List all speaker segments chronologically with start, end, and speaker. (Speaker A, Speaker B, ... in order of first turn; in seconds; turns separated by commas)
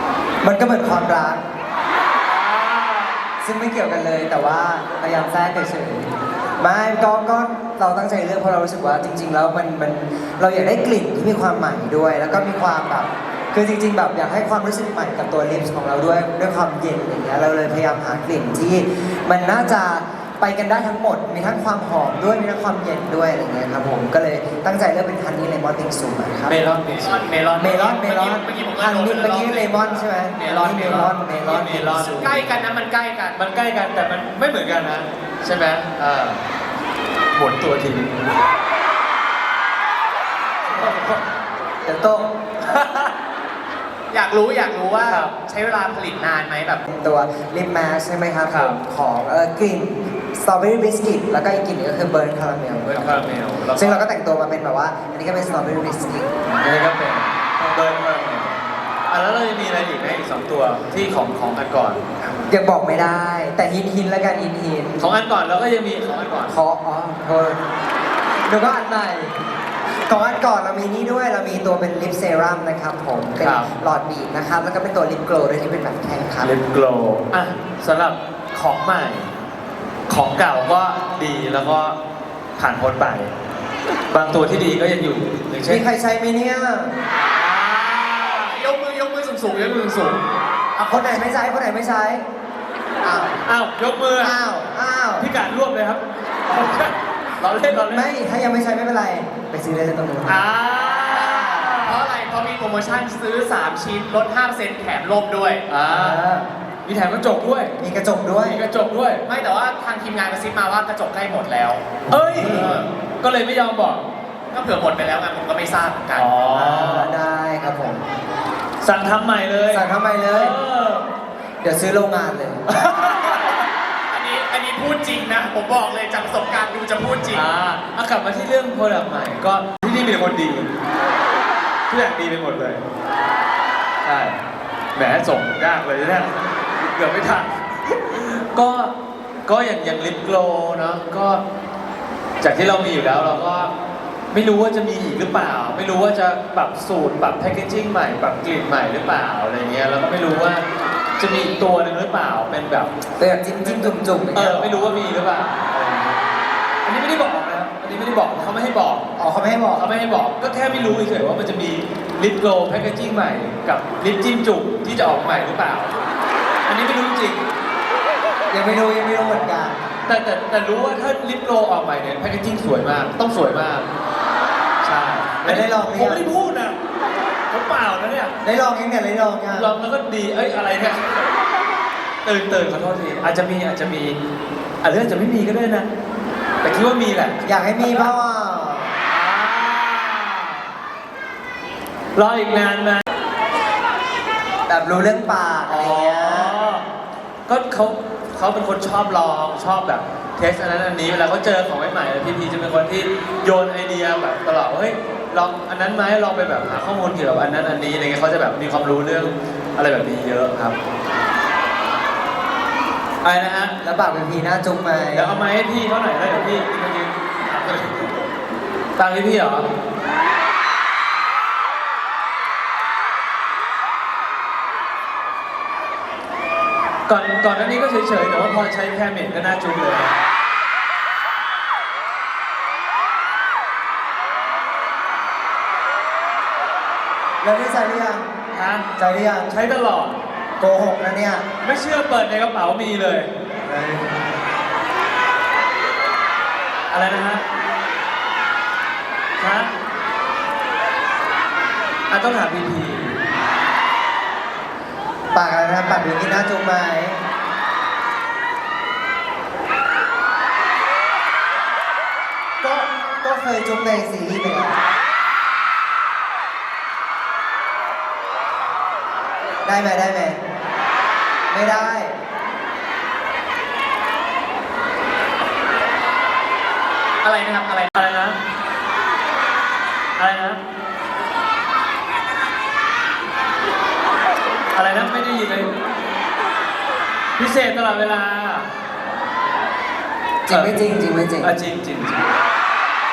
Speaker A: 0.4-1.4, Speaker B: 2.2-3.2, Speaker A: 3.4-6.1, Speaker A: 6.6-26.6, Speaker B: 26.5-27.3, Speaker C: 26.9-31.1, Speaker A: 27.6-32.4, Speaker B: 31.4-32.4, Speaker C: 32.2-33.4, Speaker B: 33.4-36.4, Speaker B: 37.3-38.1, Speaker A: 40.7-41.0, Speaker B: 40.7-41.2, Speaker A: 41.9-42.3, Speaker B: 42.6-43.1, Speaker C: 44.1-46.8, Speaker B: 45.1-45.3, Speaker A: 46.9-56.3, Speaker B: 48.5-48.8, Speaker B: 52.9-54.0, Speaker B: 56.5-58.6, Speaker B: 59.1-62.3, Speaker A: 62.5-65.0, Speaker B: 65.0-66.5, Speaker A: 66.5-67.6, Speaker A: 68.5-69.3, Speaker A: 70.1-76.5, Speaker B: 73.4-73.7, Speaker B: 76.4-79.3, Speaker B: 80.1-82.0, Speaker B: 82.6-83.3, Speaker B: 84.1-85.8, Speaker A: 85.6-87.0, Speaker B: 87.3-88.5, Speaker C: 88.3-90.2, Speaker C: 90.8-91.2, Speaker A: 90.9-92.3, Speaker A: 93.0-93.4, Speaker B: 93.5-94.4, Speaker A: 94.2-95.3, Speaker B: 95.2-98.1, Speaker A: 97.9-100.4, Speaker B: 100.3-102.1, Speaker A: 101.2-101.7, Speaker C: 101.8-105.6, Speaker B: 105.7-106.2, Speaker A: 105.9-106.5, Speaker B: 106.9-107.8, Speaker A: 107.8-108.6, Speaker B: 108.5-109.3, Speaker C: 109.3-111.8, Speaker B: 112.1-114.1, Speaker A: 112.1-112.7, Speaker C: 112.4-112.9, Speaker C: 114.5-116.3, Speaker B: 116.1-117.2, Speaker A: 116.5-118.0, Speaker B: 118.8-121.1, Speaker A: 119.7-120.6, Speaker A: 121.6-123.0, Speaker B: 122.7-123.6, Speaker C: 124.1-127.4, Speaker B: 127.3-130.7, Speaker B: 131.9-132.8, Speaker B: 134.0-134.4, Speaker B: 134.9-136.4, Speaker B: 136.9-138.9, Speaker B: 139.5-141.4, Speaker B: 142.4-143.7, Speaker B: 144.3-150.7, Speaker B: 151.2-152.9, Speaker A: 153.2-154.9, Speaker B: 153.6-156.1, Speaker B: 156.8-159.1, Speaker A: 159.2-159.9, Speaker B: 159.8-166.0, Speaker B: 166.7-167.4, Speaker A: 168.5-169.8, Speaker B: 170.1-173.9, Speaker B: 174.8-176.8, Speaker A: 175.4-176.3, Speaker B: 177.5-178.3, Speaker A: 178.4-179.7, Speaker B: 179.5-181.0, Speaker B: 182.2-184.2, Speaker B: 184.8-185.9, Speaker B: 186.6-188.1, Speaker A: 187.4-189.0, Speaker B: 189.1-190.6, Speaker B: 192.2-193.0, Speaker A: 194.7-196.6, Speaker B: 195.7-196.8, Speaker B: 197.5-210.8, Speaker B: 213.2-213.8, Speaker A: 213.8-215.4, Speaker B: 215.1-217.9, Speaker B: 219.0-219.7, Speaker B: 227.1-230.2, Speaker A: 237.4-238.2, Speaker B: 238.5-238.9, Speaker A: 239.0-239.5, Speaker B: 239.5-240.2, Speaker A: 240.6-241.5, Speaker B: 241.6-243.3, Speaker A: 243.7-244.1, Speaker B: 246.9-247.4, Speaker B: 249.4-249.7, Speaker B: 252.1-253.2, Speaker A: 255.3-257.2, Speaker A: 262.6-264.8, Speaker A: 269.6-270.4, Speaker A: 271.5-272.2, Speaker C: 277.2-278.0, Speaker B: 277.9-278.4, Speaker B: 280.2-280.6, Speaker B: 284.7-285.7, Speaker B: 287.4-288.7, Speaker A: 290.5-291.5, Speaker B: 291.4-292.2